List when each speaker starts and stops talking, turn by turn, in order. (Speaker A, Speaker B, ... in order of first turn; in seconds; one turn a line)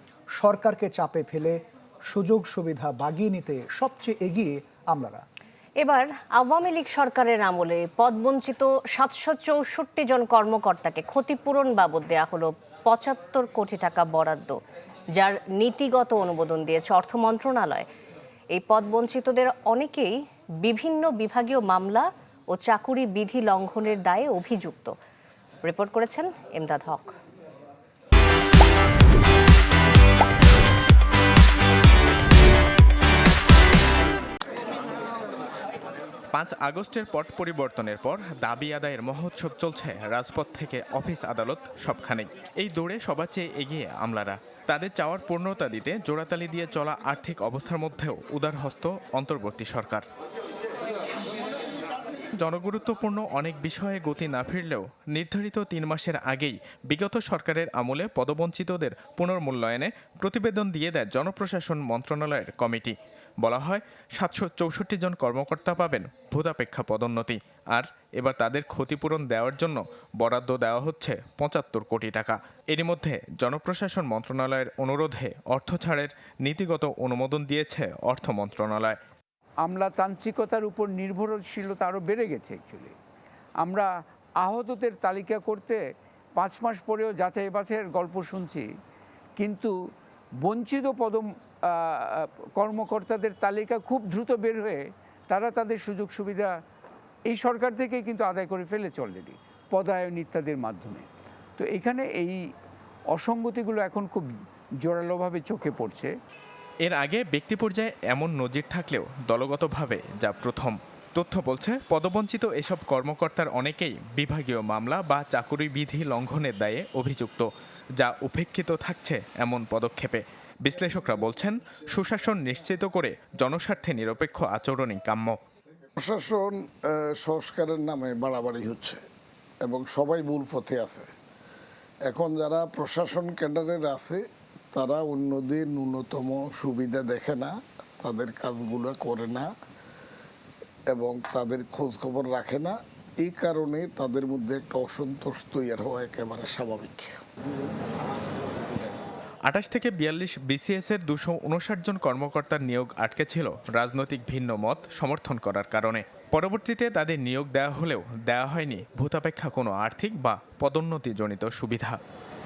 Speaker A: 0.4-1.6
Speaker A: 2.1-5.2
Speaker B: 5.8-14.5
Speaker B: 15.2-17.9
Speaker B: 18.5-20.1
Speaker B: 20.6-24.9
Speaker B: 25.6-27.1
Speaker C: 36.3-50.1
Speaker C: 52.4-79.0
Speaker D: 79.6-83.0
Speaker D: 83.6-85.8
Speaker D: 86.4-88.7
Speaker D: 89.4-89.7
Speaker D: 90.4-96.5
Speaker D: 97.3-101.1
Speaker D: 101.6-102.4
Speaker D: 103.1-104.3
Speaker D: 104.8-106.1
Speaker C: 106.8-117.5
Speaker C: 118.0-125.4
Speaker E: 126.0-129.0
Speaker E: 129.6-131.1
Speaker E: 132.1-134.2
Speaker E: 134.7-139.5
Speaker E: 140.9-147.2
Speaker C: 149.5-162.0